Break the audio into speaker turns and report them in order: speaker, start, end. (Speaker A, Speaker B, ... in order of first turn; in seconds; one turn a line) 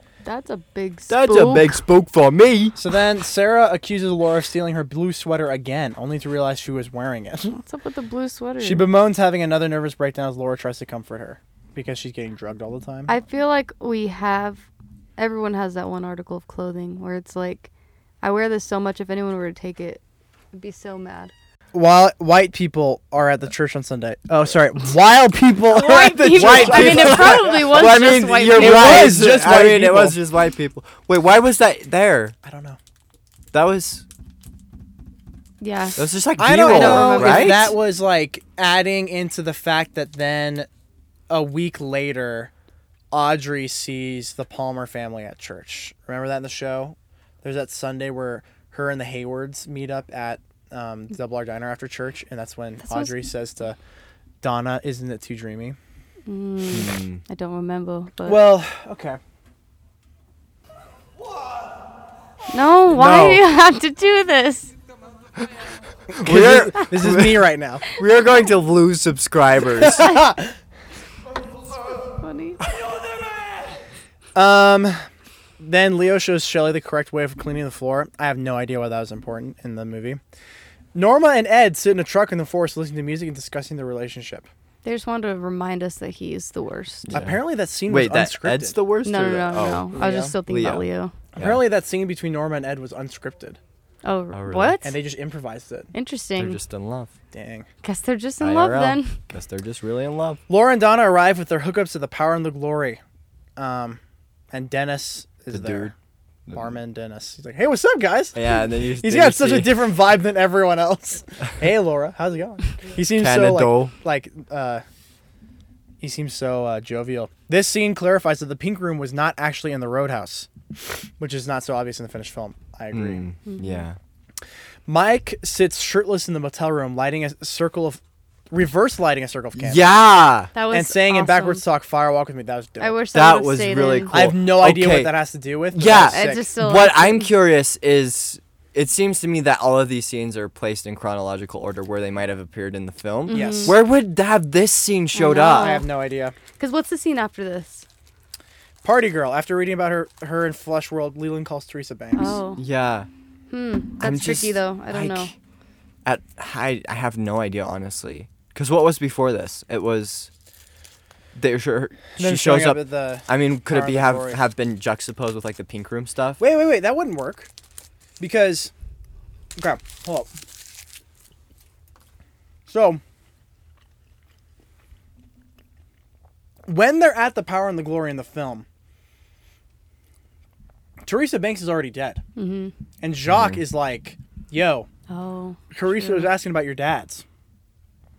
Speaker A: 0.2-1.8
Speaker B: 1.1-2.8
Speaker C: 2.8-7.6
Speaker A: 7.5-8.9
Speaker C: 8.6-13.1
Speaker A: 13.1-17.7
Speaker A: 18.2-20.0
Speaker A: 20.5-21.3
Speaker C: 21.7-27.8
Speaker A: 25.7-29.3
Speaker B: 26.3-32.4
Speaker C: 28.5-30.2
Speaker C: 32.4-32.8
Speaker B: 33.5-34.0
Speaker A: 35.6-36.0
Speaker B: 36.0-37.7
Speaker C: 36.4-40.7
Speaker A: 36.6-37.7
Speaker C: 41.3-42.5
Speaker C: 43.1-53.8
Speaker A: 52.9-53.2
Speaker C: 54.4-55.8
Speaker A: 56.3-58.5
Speaker B: 56.7-57.2
Speaker C: 58.2-59.2
Speaker A: 62.5-64.7
Speaker B: 62.9-63.4
Speaker B: 66.1-70.2
Speaker C: 66.2-67.9
Speaker C: 69.8-70.5
Speaker A: 72.2-72.6
Speaker C: 74.3-75.0
Speaker C: 75.6-80.2
Speaker C: 80.9-84.5
Speaker A: 84.8-87.1
Speaker B: 87.1-90.9
Speaker C: 87.1-88.8
Speaker A: 89.0-91.2
Speaker C: 90.0-90.3
Speaker C: 91.4-93.6
Speaker B: 91.4-91.6
Speaker A: 94.0-95.0
Speaker B: 94.3-94.8
Speaker C: 94.8-95.9
Speaker A: 95.9-96.6
Speaker B: 96.4-97.1
Speaker C: 97.3-97.7
Speaker A: 97.8-99.2
Speaker B: 98.4-100.4
Speaker C: 100.5-103.0
Speaker C: 103.6-104.0
Speaker C: 104.5-105.9
Speaker B: 105.5-105.9
Speaker C: 106.5-114.8
Speaker B: 108.3-109.8
Speaker B: 113.2-114.0
Speaker C: 116.0-120.5
Speaker C: 121.2-123.2
Speaker B: 122.9-124.0
Speaker A: 123.5-123.8
Speaker C: 124.9-129.9
Speaker B: 129.6-130.5
Speaker A: 130.5-131.6
Speaker C: 130.7-133.0
Speaker A: 132.8-134.2
Speaker B: 133.1-135.1
Speaker C: 134.1-136.5
Speaker B: 135.7-145.8
Speaker A: 136.1-137.3
Speaker A: 143.3-143.8
Speaker C: 143.3-143.8
Speaker A: 145.2-145.8
Speaker C: 145.5-146.4
Speaker A: 146.6-147.9
Speaker C: 148.8-152.4
Speaker A: 152.2-152.6
Speaker B: 152.6-153.1
Speaker A: 153.5-155.3
Speaker B: 154.0-155.3
Speaker B: 156.1-160.3
Speaker B: 161.3-166.4
Speaker C: 162.2-164.4
Speaker C: 166.4-167.5
Speaker C: 168.2-168.7
Speaker C: 169.6-170.3
Speaker C: 172.7-173.0
Speaker C: 176.7-178.7
Speaker C: 181.0-182.2
Speaker A: 182.4-182.7
Speaker C: 183.0-184.9
Speaker B: 183.3-183.6
Speaker A: 185.1-186.3
Speaker C: 185.7-187.2